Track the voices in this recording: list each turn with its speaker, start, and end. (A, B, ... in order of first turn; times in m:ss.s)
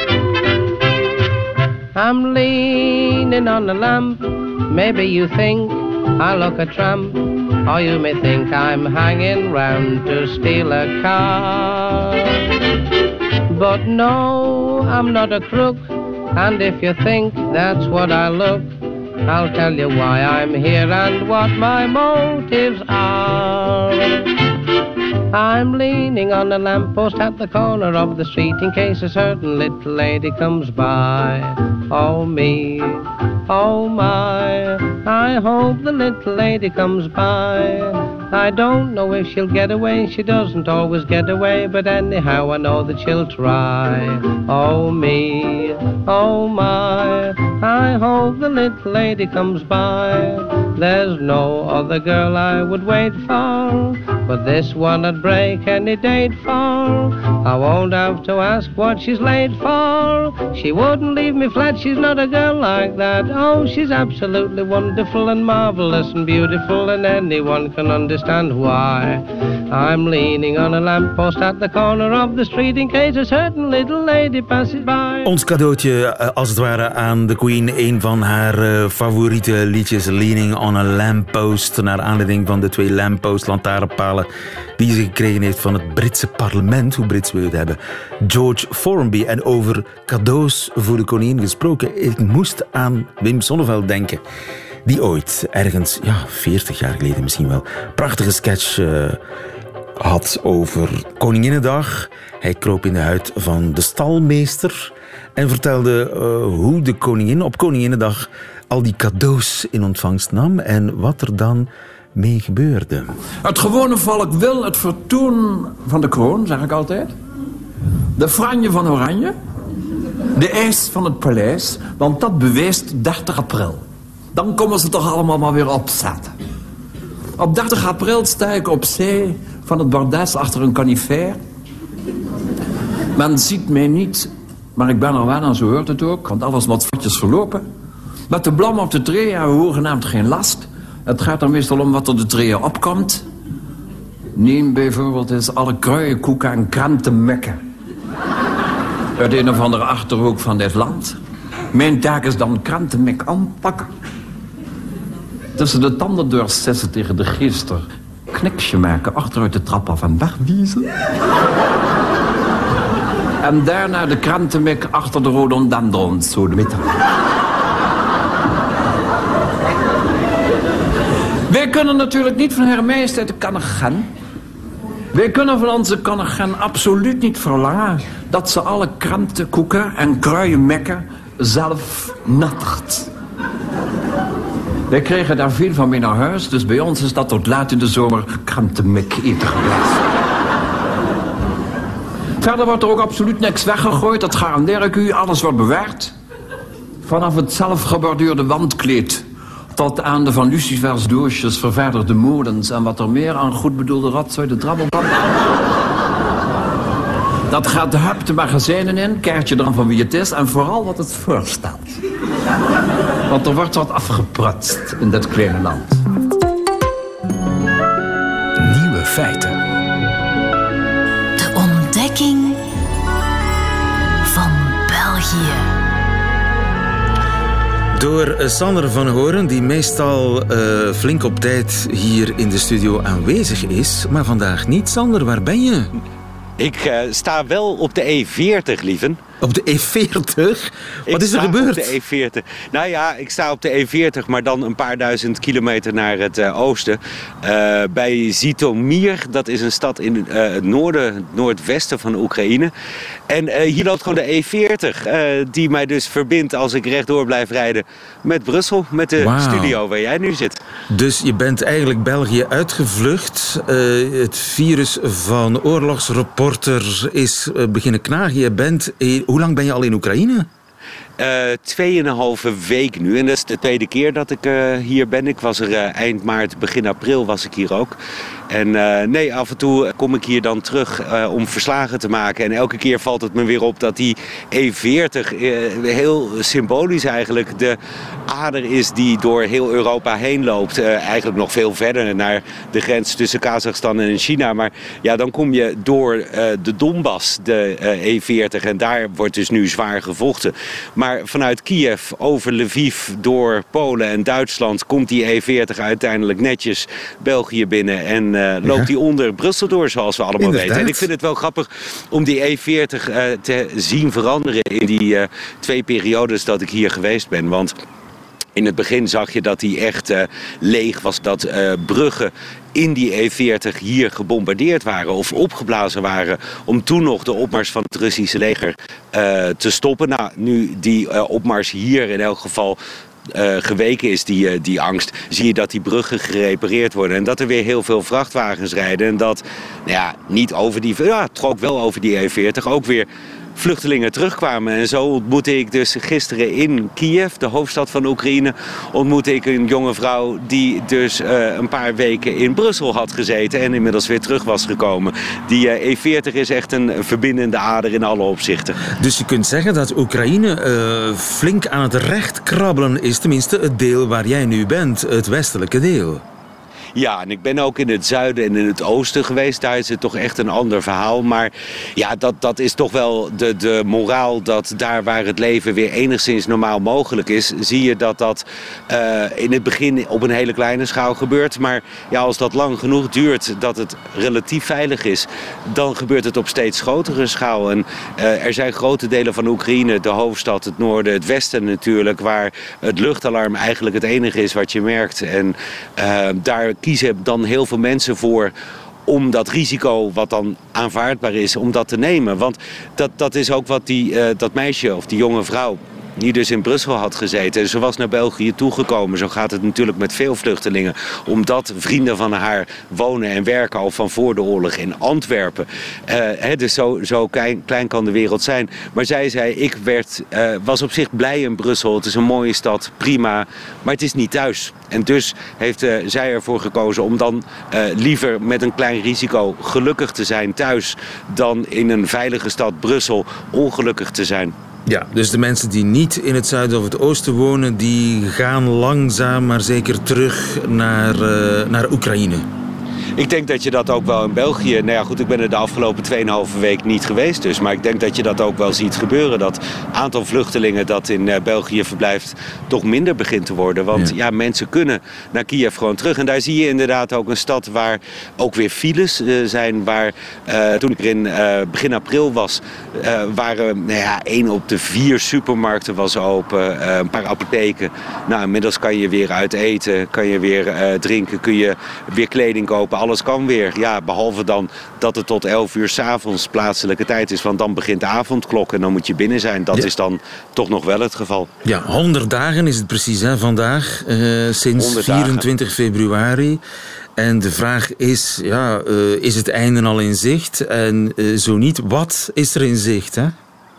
0:01.9-0:12.4 A
0:13.5-0:24.3 A
0:25.3-1:15.3 A
1:15.2-1:34.2 B
1:34.8-1:39.2 B
1:40.0-1:53.2 B
1:53.4-1:57.1 C
1:58.2-1:59.3 C
2:00.3-2:06.3 C
2:07.4-2:11.4 C
2:13.2-2:17.6 C
2:18.3-2:23.2 C
2:24.3-2:27.6 C
2:29.2-2:31.2 C
2:31.7-2:33.9 C
2:35.6-2:40.9 C
2:43.4-2:46.9 C
2:51.5-2:54.1 C
2:55.1-3:03.1 C
3:04.9-3:10.0 C
3:12.4-3:16.1 C
3:17.0-3:19.2 C
3:19.7-3:25.2 C
3:27.5-3:32.0 C
3:33.3-3:36.0 C
3:38.6-3:39.6 C
3:41.4-3:42.6 D
3:44.2-3:45.7 D
3:47.9-3:55.9 B
3:56.6-3:59.2 E
3:59.4-4:01.9 B
4:01.1-4:12.7 E
4:13.3-4:20.6 E
4:19.2-4:19.8 B
4:20.9-4:30.5 B
4:31.2-4:37.9 E
4:38.5-5:17.7 E
5:08.6-5:08.9 B
5:10.4-5:11.1 B
5:18.6-5:32.8 E
5:33.3-5:58.9 E
5:58.9-6:06.2 B
6:07.0-6:38.5 E
6:39.0-7:14.5 E
7:14.8-7:22.5 B
7:23.2-8:01.5 E
8:01.6-8:06.6 B
8:04.8-8:05.4 E
8:07.2-8:13.3 B